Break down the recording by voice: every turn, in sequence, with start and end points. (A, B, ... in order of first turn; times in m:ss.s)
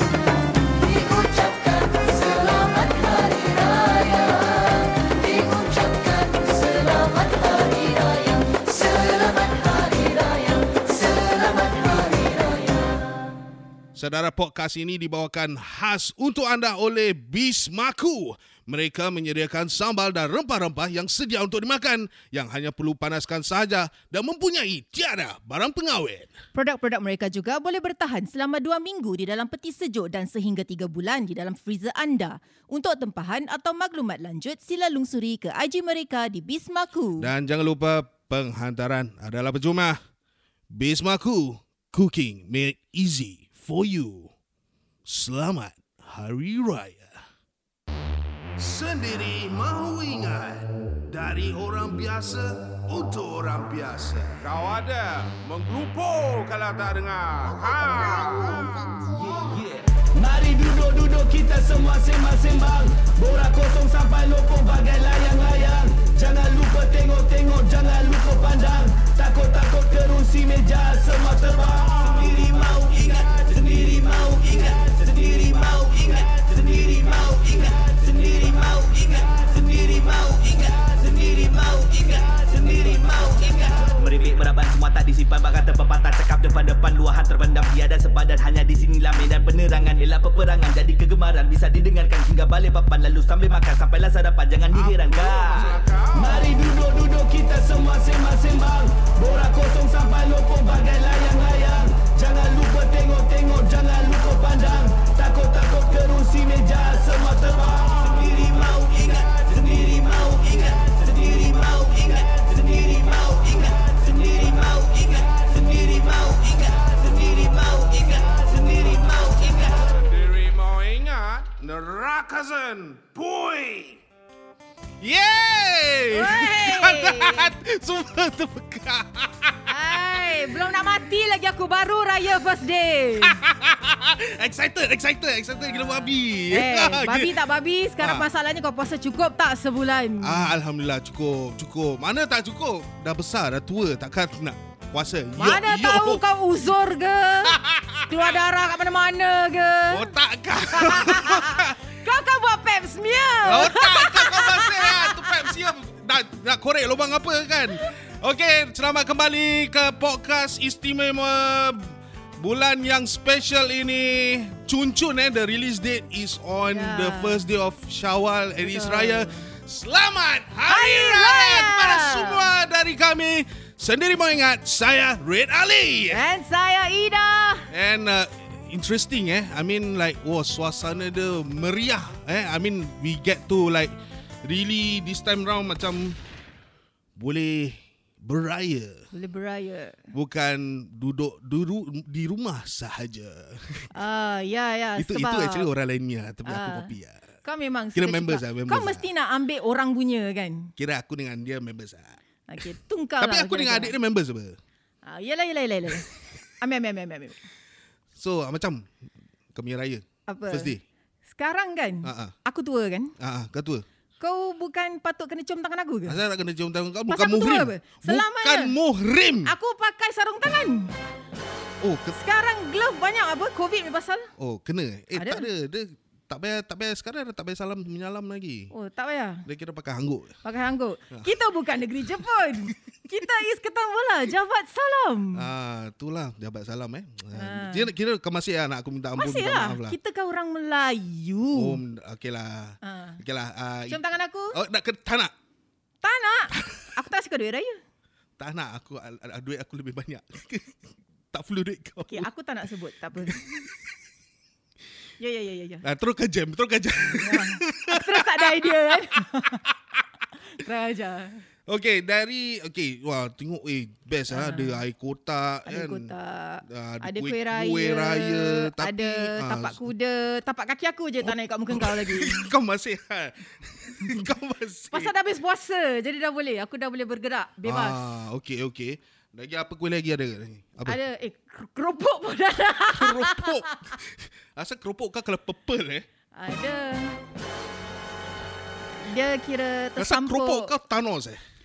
0:01.0-0:03.6 A
0:05.3-0:08.0 A
0:08.5-0:09.7 A
0:10.7-0:12.4 A
0:13.9-0:26.3 B
0:26.5-0:37.3 C
0:37.2-0:40.0 B
0:40.7-0:44.3 B
0:45.0-0:47.2 B
0:48.6-0:54.5 B
0:54.5-0:59.1 D
0:57.7-0:59.3 B
1:00.0-2:00.0 E
2:00.1-2:01.5 D
2:01.4-2:04.0 B
2:05.0-2:10.4 B
2:06.1-2:07.5 C
2:09.6-2:13.4 C
2:13.2-2:17.4 B
2:16.5-2:20.5 C
2:18.0-2:18.3 B
2:20.2-2:26.2 B
2:25.4-2:30.1 C
2:27.4-2:28.3 B
2:29.9-2:31.8 B
2:30.7-2:35.5 C
2:33.4-2:56.2 B
2:46.7-2:47.5 C
2:48.6-2:49.5 C
2:50.7-2:52.4 C
2:56.1-2:57.7 C
2:57.7-3:06.2 B
3:07.2-3:09.0 B
3:09.1-3:10.0 C
3:10.1-3:13.9 B
3:13.9-3:15.7 C
3:15.0-3:17.2 B
3:16.4-3:16.9 C
3:17.4-3:20.7 C
3:17.9-3:19.1 B
3:20.8-3:22.2 B
3:22.5-3:24.0 C
3:23.2-3:24.6 B
3:25.0-3:27.4 C
3:28.1-3:28.9 B
3:29.5-3:30.8 B
3:30.3-3:30.8 C
3:31.3-3:33.1 C
3:32.0-3:32.3 B
3:33.2-3:33.8 B
3:34.2-3:36.2 C
3:36.0-3:39.5 B
3:37.1-3:38.7 C
3:39.4-3:40.9 C
3:41.8-3:42.2 B
3:42.2-3:44.3 C
3:44.4-3:48.7 B
3:45.1-3:45.5 C
3:48.7-3:49.4 C
3:49.4-3:50.4 B
3:50.4-3:55.5 C
3:51.1-3:51.4 B
3:55.3-4:00.0 B
3:57.3-3:57.9 C
3:59.2-4:01.8 C
4:01.5-4:05.3 B
4:02.8-4:03.2 C
4:03.9-4:04.6 C
4:06.0-4:07.8 C
4:08.4-4:12.3 B
4:12.1-4:13.6 C
4:13.2-4:13.5 B
4:15.2-4:15.8 C
4:15.8-4:19.2 B
4:17.0-4:19.6 C
4:19.7-4:20.0 B
4:20.3-4:21.4 C
4:21.7-4:26.1 B
4:24.3-4:24.8 C
4:25.7-4:32.5 C
4:26.6-4:29.8 B
4:31.2-4:35.1 B
4:34.9-4:38.1 C
4:37.6-4:41.0 B
4:40.8-4:44.0 C
4:42.9-4:46.1 B
4:46.3-4:47.2 C
4:49.0-4:50.7 C
4:50.0-4:51.4 B